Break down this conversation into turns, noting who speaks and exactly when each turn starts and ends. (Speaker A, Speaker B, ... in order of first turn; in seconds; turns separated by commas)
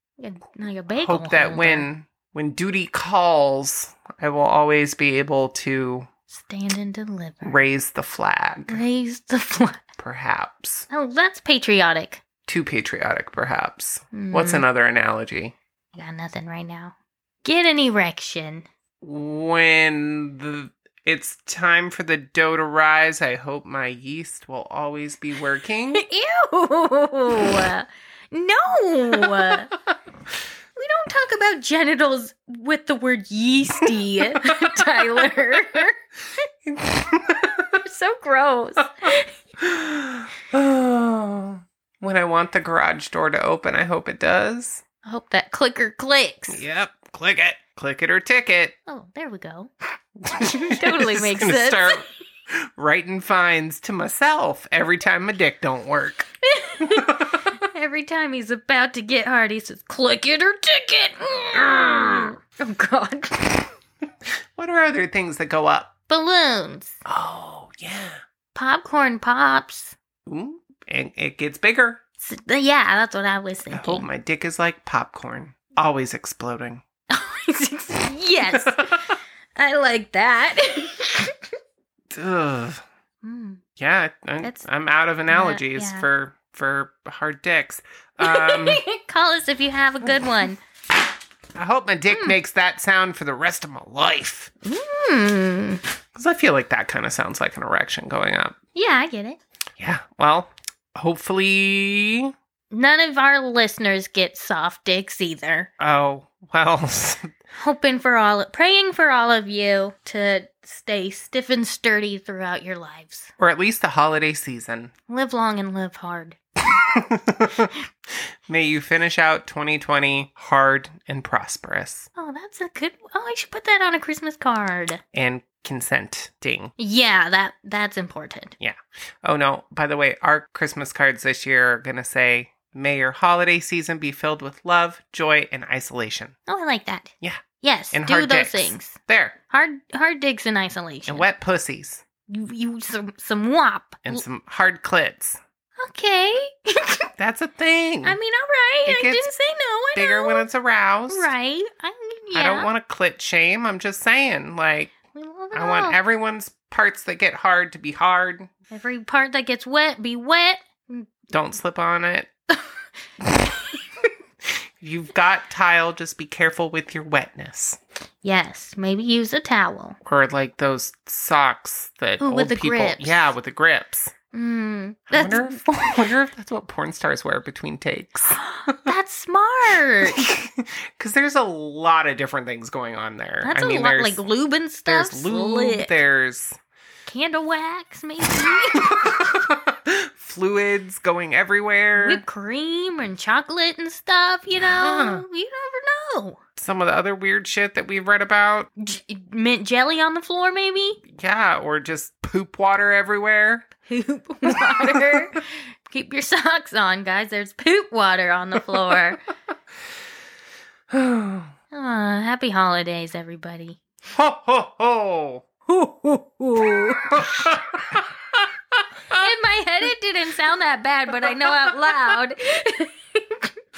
Speaker A: 0.2-1.9, Speaker B: 0.9-6.1, Speaker A: 6.3-7.6, Speaker B: 7.4-8.8, Speaker A: 8.7-9.8, Speaker B: 10.0-10.9, Speaker A: 10.9-12.2, Speaker B: 12.5-15.6, Speaker A: 14.1-14.7, Speaker A: 15.9-18.6, Speaker B: 19.0-26.0, Speaker A: 25.9-29.7, Speaker A: 30.8-36.0, Speaker B: 33.8-34.5, Speaker B: 36.7-37.7, Speaker A: 37.7-39.3, Speaker B: 39.6-44.8, Speaker A: 45.0-46.6, Speaker B: 46.5-48.8, Speaker A: 48.9-49.7, Speaker B: 50.2-52.0, Speaker A: 50.6-52.1, Speaker B: 52.8-56.3, Speaker A: 56.6-63.7, Speaker B: 56.8-57.4, Speaker B: 61.5-62.4, Speaker B: 64.6-65.9, Speaker A: 66.1-67.0, Speaker B: 67.1-68.2, Speaker A: 68.5-70.0, Speaker B: 70.3-72.0, Speaker A: 72.2-74.1, Speaker B: 73.7-76.8, Speaker A: 77.1-79.0, Speaker B: 78.5-78.9, Speaker A: 79.6-81.4, Speaker B: 82.1-82.8, Speaker A: 83.2-83.6, Speaker B: 83.8-88.8, Speaker A: 85.3-86.1, Speaker A: 88.2-90.6, Speaker B: 91.6-94.5, Speaker A: 92.1-92.4, Speaker A: 94.7-95.8, Speaker B: 96.2-98.6, Speaker A: 98.8-99.4, Speaker B: 99.8-102.3, Speaker A: 102.7-105.7, Speaker B: 105.8-107.3, Speaker A: 107.6-113.3, Speaker B: 113.4-114.9, Speaker A: 115.1-116.4, Speaker B: 116.8-117.7, Speaker B: 118.5-122.1, Speaker A: 122.2-125.0, Speaker B: 125.1-126.7, Speaker A: 126.8-128.6, Speaker B: 128.6-136.3, Speaker A: 136.5-139.0, Speaker B: 137.2-139.4, Speaker A: 139.5-141.2, Speaker B: 141.1-142.0, Speaker A: 142.3-144.2, Speaker B: 144.1-145.4, Speaker A: 145.8-147.1, Speaker B: 147.2-148.2, Speaker A: 148.0-150.5, Speaker B: 148.9-149.3, Speaker B: 149.9-151.3, Speaker A: 151.1-152.7, Speaker B: 152.3-154.9, Speaker A: 155.1-156.0, Speaker B: 155.5-158.5, Speaker A: 158.7-161.1, Speaker B: 161.3-162.3, Speaker B: 164.8-167.8, Speaker A: 168.2-170.0, Speaker B: 170.1-174.1, Speaker A: 172.2-173.3, Speaker A: 174.3-175.6, Speaker B: 175.1-178.5, Speaker A: 178.6-180.3, Speaker B: 180.0-184.2, Speaker A: 183.4-185.9, Speaker B: 184.9-186.6, Speaker A: 187.1-189.4, Speaker B: 188.8-192.2, Speaker A: 192.0-196.4, Speaker B: 194.6-195.2, Speaker B: 196.6-198.7, Speaker A: 198.8-201.0, Speaker B: 201.1-203.7, Speaker A: 203.9-209.2, Speaker B: 210.9-211.5, Speaker A: 211.7-213.8, Speaker B: 214.1-215.4, Speaker A: 215.7-217.3, Speaker B: 217.1-219.1, Speaker A: 219.1-223.5, Speaker B: 221.4-221.9